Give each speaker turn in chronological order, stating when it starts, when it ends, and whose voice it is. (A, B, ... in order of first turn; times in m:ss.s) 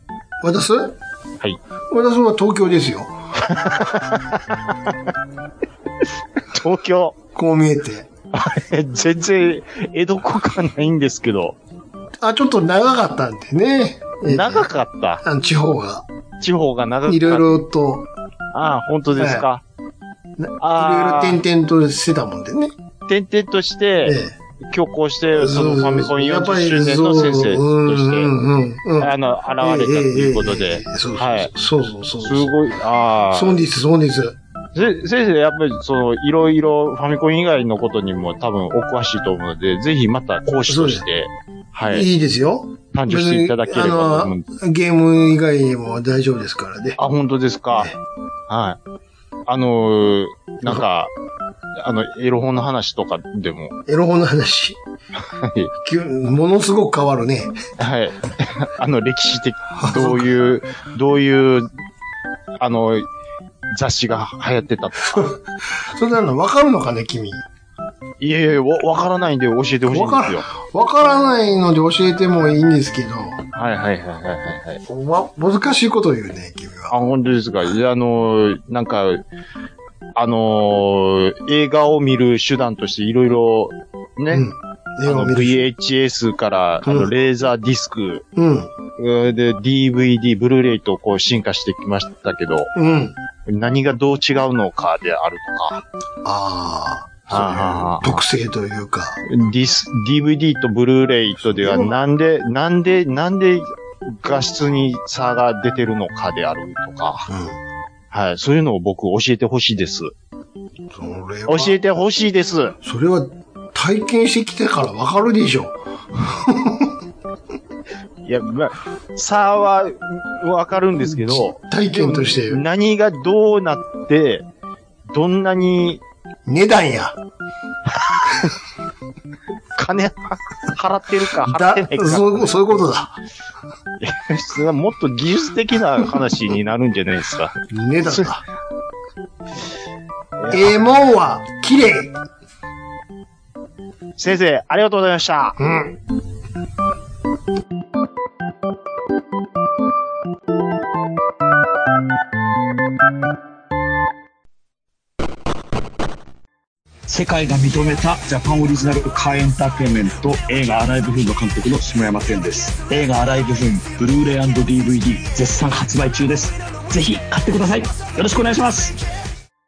0:00.4-0:01.0 A
0:01.9-0:03.9 A
0:03.4-0:04.9 B
0:06.4-0:07.2 B
0:07.3-0:08.1 A
0:08.3-0:11.6 B
0:12.2-0:14.7 A
0:14.3-0:15.2 B
0:15.2-0:16.1 A
0:16.4-0:17.6 B
0:17.1-0:18.1 A
0:18.5-0:19.6 B
0:19.2-0:19.5 A
0:20.4-0:22.7 A
0:20.6-0:21.4 B
0:23.1-0:28.3 B
0:24.0-0:24.3 A
0:25.3-0:32.6 A
0:29.0-0:31.5 B
0:32.2-0:33.6 B
0:33.3-0:34.4 A
0:34.7-0:42.1 B
0:40.7-0:41.0 A
0:41.8-0:47.0 A
0:42.9-0:44.5 B
0:47.0-0:47.9 B
0:47.7-0:48.0 A
0:48.5-0:48.8 B
0:49.5-0:51.1 B
0:51.8-0:53.8 B
0:53.9-0:54.8 A
0:55.3-0:55.7 B
0:55.8-0:57.6 A
0:57.8-1:01.7 B
0:59.8-1:00.4 A
1:02.6-1:03.1 B
1:03.7-1:05.3 B
1:05.1-1:07.4 A
1:08.2-1:10.5 B
1:09.9-1:13.4 A
1:13.5-1:14.8 B
1:14.9-1:17.0 A
1:16.9-1:19.3 B
1:20.2-1:24.5 B
1:24.3-1:25.6 A
1:25.0-1:28.2 B
1:26.8-1:27.1 A
1:28.4-1:28.7 A
1:29.0-1:32.7 B
1:32.8-1:33.2 A
1:33.5-1:35.8 B
1:36.2-1:39.2 A
1:37.3-1:38.2 B
1:39.3-1:47.3 B
1:41.4-1:42.0 A
1:47.3-1:47.6 A
1:48.1-1:50.1 B
1:50.9-1:51.8 A
1:51.5-1:52.8 B
1:52.8-1:56.9 A
1:58.3-2:04.5 B
2:01.1-2:02.6 A
2:05.1-2:06.0 B
2:06.5-2:07.2 A
2:08.2-2:08.5 B
2:09.8-2:12.6 B
2:11.4-2:13.2 A
2:14.0-2:18.3 B
2:17.7-2:18.4 A
2:20.4-2:20.7 B
2:20.5-2:22.2 A
2:24.2-2:25.6 B
2:25.6-2:26.0 A
2:37.1-2:49.0 C